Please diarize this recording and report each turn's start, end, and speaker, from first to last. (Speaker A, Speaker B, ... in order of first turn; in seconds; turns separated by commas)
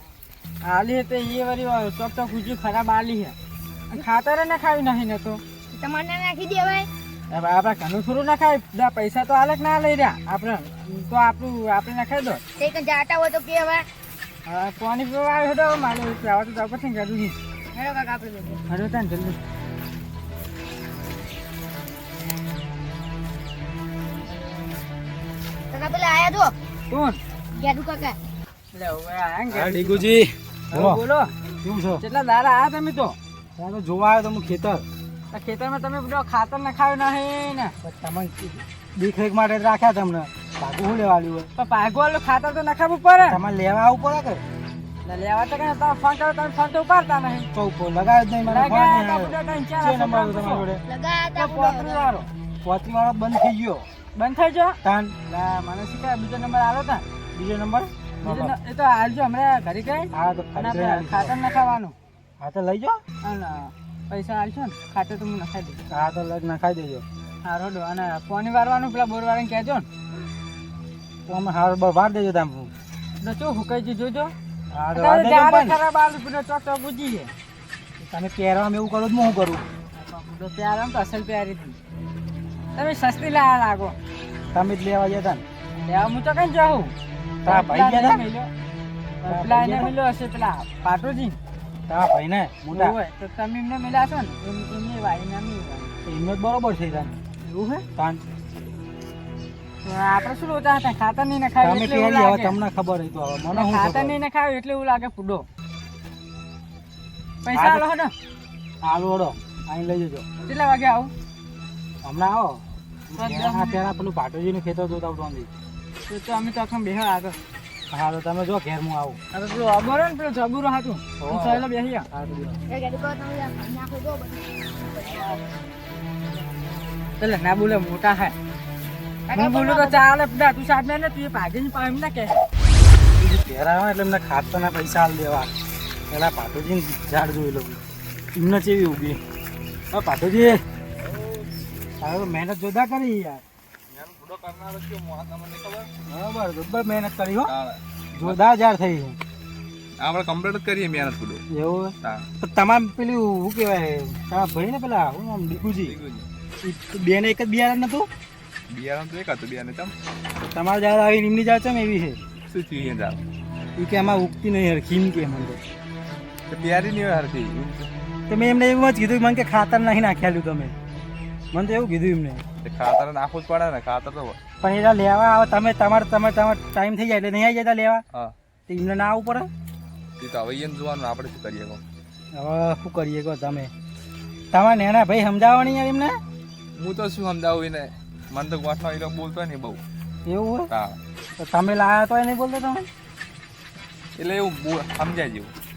Speaker A: 0.7-3.3, Speaker A: 3.9-5.4, Speaker B: 5.7-6.9, Speaker A: 7.3-12.4, Speaker B: 12.6-13.8, Speaker A: 14.4-17.4, Speaker B: 17.7-18.6, Speaker A: 18.7-19.4, Speaker B: 25.7-26.5, Speaker A: 26.9-27.2, Speaker B: 27.5-28.2, Speaker A: 28.7-30.1, Speaker C: 29.5-31.0, Speaker A: 30.7-31.3, Speaker C: 31.6-32.0, Speaker A: 32.0-33.2, Speaker C: 33.6-34.8, Speaker A: 35.3-37.7, Speaker C: 37.8-41.5, Speaker A: 41.5-43.4, Speaker C: 43.2-44.4, Speaker A: 45.0-47.5, Speaker C: 47.5-50.8, Speaker A: 48.5-50.6, Speaker B: 50.9-52.1, Speaker A: 51.4-52.3, Speaker C: 52.6-53.9, Speaker A: 54.1-57.0, Speaker C: 54.8-55.1, Speaker C: 57.3-58.5, Speaker A: 58.2-62.0, Speaker C: 60.1-61.3, Speaker C: 62.4-63.0, Speaker A: 63.2-65.8, Speaker C: 65.9-67.0, Speaker A: 67.4-69.9, Speaker C: 71.3-72.7, Speaker A: 73.2-74.3, Speaker C: 74.7-75.8, Speaker A: 75.0-77.3, Speaker C: 78.0-79.6, Speaker A: 79.9-81.8, Speaker A: 82.8-84.0, Speaker C: 84.5-85.4, Speaker A: 85.8-86.9, Speaker C: 87.4-88.2, Speaker A: 87.5-88.5, Speaker C: 89.2-89.9, Speaker A: 89.2-91.4, Speaker C: 91.9-93.0, Speaker A: 92.7-95.9, Speaker C: 96.0-97.2, Speaker A: 97.4-97.8, Speaker C: 98.0-98.2, Speaker A: 99.8-102.6, Speaker C: 101.6-104.2, Speaker A: 103.5-105.4, Speaker A: 107.4-108.1, Speaker C: 107.5-107.8, Speaker C: 108.8-110.3, Speaker A: 110.4-111.1, Speaker C: 112.0-115.5, Speaker A: 113.2-113.8, Speaker A: 116.1-117.4, Speaker C: 117.9-119.2, Speaker A: 119.3-122.1, Speaker C: 121.2-122.6, Speaker B: 122.7-126.2, Speaker A: 127.2-128.3, Speaker B: 129.2-130.0, Speaker A: 129.3-132.4, Speaker C: 133.2-135.5, Speaker C: 136.1-137.8, Speaker C: 138.3-139.2, Speaker C: 139.9-140.6, Speaker D: 141.0-141.5, Speaker C: 142.0-143.4, Speaker D: 143.9-145.9, Speaker C: 146.1-147.5, Speaker D: 147.4-148.4, Speaker C: 148.1-149.2, Speaker D: 150.0-151.4, Speaker C: 151.5-155.9, Speaker D: 155.8-156.2, Speaker C: 156.6-158.1, Speaker D: 158.7-159.9, Speaker C: 160.5-162.2, Speaker D: 162.5-163.2, Speaker C: 163.8-165.6, Speaker D: 166.5-167.9, Speaker C: 168.3-170.7, Speaker C: 171.5-172.4, Speaker D: 172.6-174.4, Speaker C: 174.6-178.0, Speaker C: 178.7-179.5, Speaker D: 180.2-181.8, Speaker C: 182.3-183.7, Speaker C: 184.5-186.2, Speaker D: 186.8-189.8, Speaker C: 190.2-190.7, Speaker D: 190.7-191.0, Speaker C: 191.4-192.9, Speaker D: 194.2-195.5